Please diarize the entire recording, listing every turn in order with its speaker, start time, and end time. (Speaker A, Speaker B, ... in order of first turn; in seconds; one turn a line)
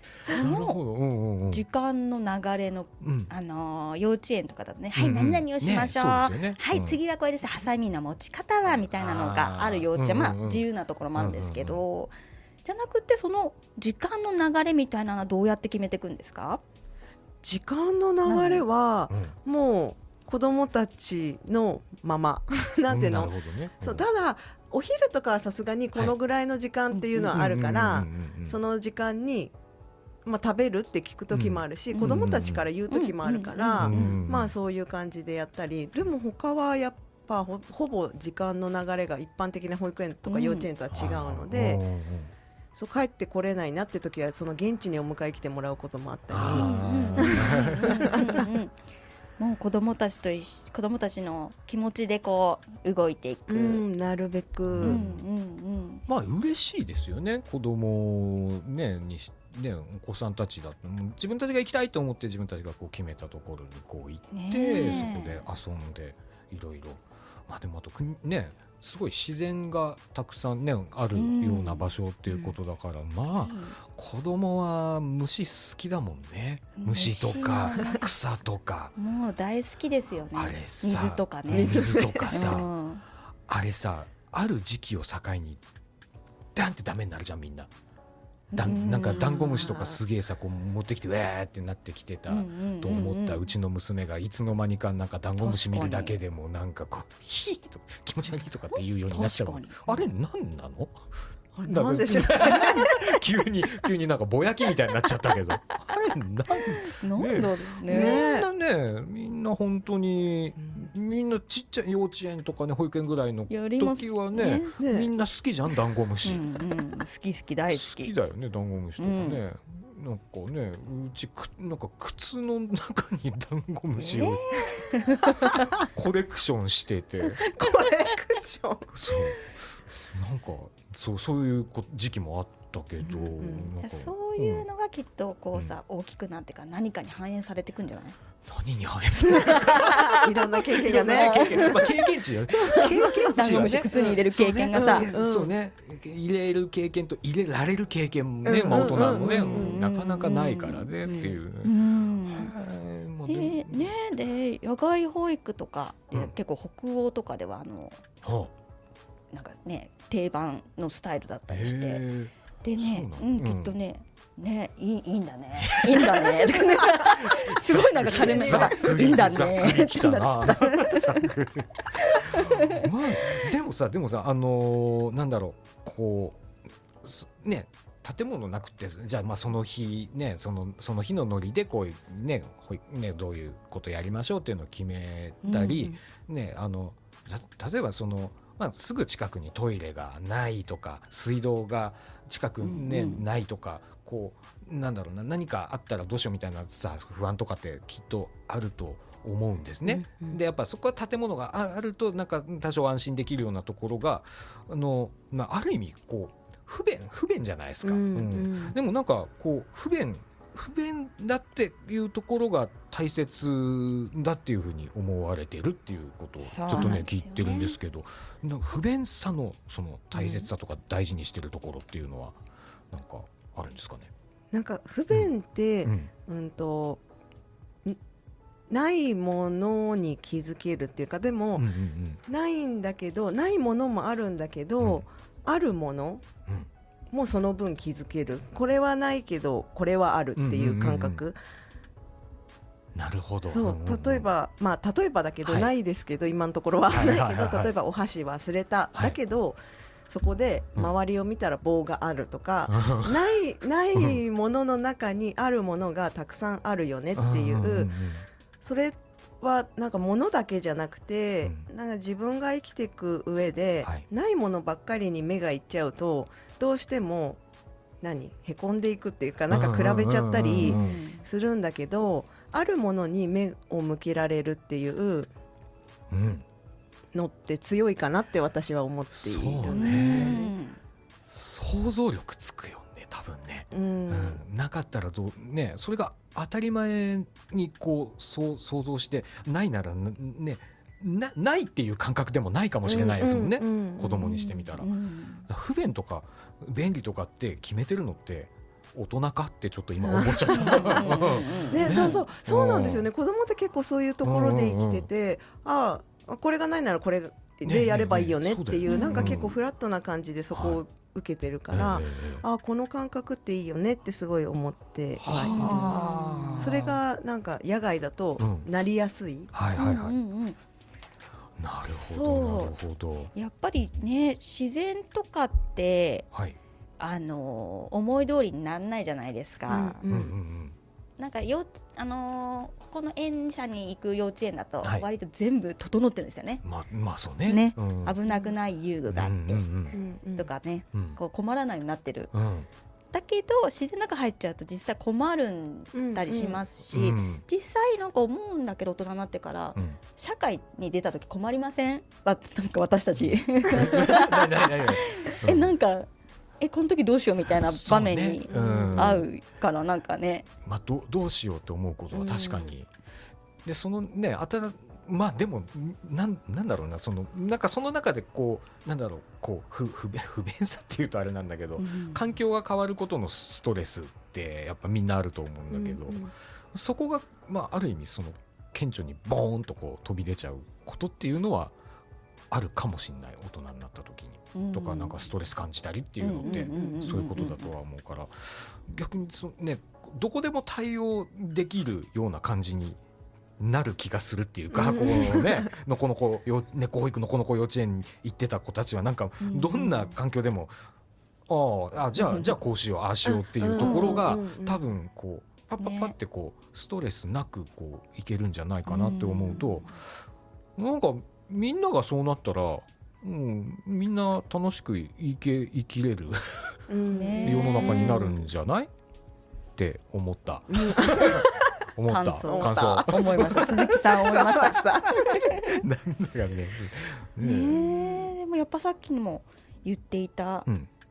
Speaker A: 0.3-1.6
Speaker B: 0.3-0.8
Speaker B: 1.5-12.1
Speaker A: 3.0-3.3
Speaker A: 5.0-7.0
Speaker A: 8.7-10.6
Speaker A: 11.2-11.8
Speaker B: 12.6-16.6
Speaker C: 17.4-29.5
Speaker B: 18.3-18.6
Speaker A: 19.1-19.4
Speaker A: 22.9-24.1
Speaker A: 27.1-28.6
Speaker C: 30.2-41.8
Speaker A: 31.3-32.7
Speaker B: 32.9-34.2
Speaker A: 33.8-34.5
Speaker B: 40.3-40.7
Speaker A: 40.9-42.3
Speaker C: 42.7-48.4
Speaker A: 46.3-48.3
Speaker B: 46.5-48.8
Speaker B: 49.4-53.8
Speaker C: 53.5-55.0
Speaker A: 54.7-55.2
Speaker B: 54.8-56.0
Speaker A: 56.1-78.9
Speaker B: 64.3-65.5
Speaker B: 71.1-71.9
Speaker B: 73.4-73.8
Speaker B: 76.8-78.1
Speaker B: 79.0-83.0
Speaker A: 80.3-82.7
Speaker C: 81.5-82.6
Speaker A: 83.5-85.6
Speaker A: 86.5-87.7
Speaker B: 88.5-89.9
Speaker A: 88.5-101.0
Speaker B: 92.3-93.5
Speaker B: 95.4-96.2
Speaker B: 98.7-100.0
Speaker C: 101.6-103.2
Speaker A: 101.7-116.5
Speaker B: 106.5-108.2
Speaker C: 107.9-108.5
Speaker B: 113.5-114.8
Speaker C: 114.8-115.1
Speaker B: 116.2-118.1
Speaker A: 117.7-125.0
Speaker B: 119.0-119.4
Speaker B: 124.0-125.7
Speaker A: 125.5-127.5
Speaker C: 127.4-128.9
Speaker A: 128.9-134.7
Speaker C: 133.1-133.7
Speaker B: 133.8-138.2
Speaker A: 138.4-153.9
Speaker C: 139.3-141.8
Speaker B: 139.3-140.3
Speaker B: 140.9-142.0
Speaker C: 142.7-144.1
Speaker B: 142.7-145.1
Speaker C: 144.7-145.5
Speaker C: 148.4-149.8
Speaker B: 148.8-152.5
Speaker B: 153.3-158.0
Speaker A: 158.2-158.5
Speaker B: 159.3-162.0
Speaker A: 161.5-163.8
Speaker B: 162.6-171.3
Speaker A: 165.6-176.4
Speaker C: 168.1-168.7
Speaker B: 171.9-172.9
Speaker A: 177.0-222.4
Speaker B: 185.4-186.0
Speaker B: 192.6-193.2
Speaker C: 199.9-200.4
Speaker C: 207.8-208.8
Speaker B: 216.4-217.8
Speaker C: 216.8-217.0
Speaker C: 220.2-220.5
Speaker A: 222.9-224.1
Speaker C: 224.5-227.0
Speaker A: 225.8-226.1
Speaker C: 228.7-231.7
Speaker A: 231.6-232.2
Speaker C: 232.3-236.2
Speaker C: 237.1-241.4
Speaker A: 240.4-241.2
Speaker A: 242.9-244.3
Speaker C: 243.5-257.9
Speaker A: 245.4-245.7
Speaker A: 246.9-247.7
Speaker A: 252.7-253.3
Speaker A: 257.2-258.2
Speaker C: 258.6-267.4
Speaker A: 261.4-261.7
Speaker C: 268.0-275.3
Speaker A: 269.5-271.0
Speaker B: 270.6-271.2
Speaker A: 276.1-276.4
Speaker C: 277.1-280.5
Speaker A: 279.2-280.4
Speaker B: 279.7-280.8
Speaker A: 281.3-294.9
Speaker C: 283.7-284.4
Speaker C: 292.9-294.3
Speaker B: 294.2-295.5
Speaker A: 295.5-303.1
Speaker C: 300.0-316.0
Speaker B: 300.5-302.2
Speaker A: 304.2-305.1
Speaker A: 307.6-309.6
Speaker B: 308.9-309.4
Speaker A: 310.5-310.8
Speaker A: 311.7-312.4
Speaker A: 315.2-317.0
Speaker B: 315.3-316.8
Speaker C: 316.6-319.5
Speaker A: 318.4-318.7
Speaker A: 319.5-320.2
Speaker B: 319.8-320.6
Speaker A: 321.6-323.3
Speaker B: 322.0-322.8
Speaker B: 323.3-326.3
Speaker A: 326.3-326.6
Speaker B: 327.0-330.0
Speaker C: 329.7-330.3
Speaker A: 330.1-330.8
Speaker B: 331.2-336.6
Speaker A: 336.6-338.2
Speaker B: 337.5-339.6
Speaker C: 338.3-338.5
Speaker A: 339.1-340.0
Speaker C: 339.9-340.5
Speaker B: 340.4-342.3
Speaker A: 340.9-341.2
Speaker A: 342.3-342.7
Speaker B: 343.1-356.1
Speaker C: 345.9-346.6
Speaker A: 346.9-347.4
Speaker A: 353.2-355.7
Speaker B: 356.6-360.5
Speaker A: 357.5-359.3
Speaker C: 358.5-359.2
Speaker A: 360.6-362.9
Speaker C: 362.1-362.7
Speaker A: 363.6-381.7
Speaker B: 371.8-372.2
Speaker C: 375.7-376.3
Speaker A: 382.5-393.0
Speaker B: 384.5-385.2
Speaker B: 386.2-387.7
Speaker C: 386.4-387.0
Speaker A: 393.6-400.8
Speaker C: 394.7-395.7
Speaker B: 399.4-400.2
Speaker A: 401.5-409.9
Speaker C: 403.3-404.8
Speaker B: 403.8-404.3
Speaker B: 405.8-406.2
Speaker B: 408.9-409.9
Speaker A: 410.8-416.8
Speaker C: 416.9-418.4
Speaker B: 417.1-418.3
Speaker A: 417.4-418.9
Speaker A: 419.8-424.2
Speaker C: 420.7-421.6
Speaker B: 422.1-425.8
Speaker C: 422.4-425.4
Speaker A: 425.1-428.2
Speaker B: 427.4-430.7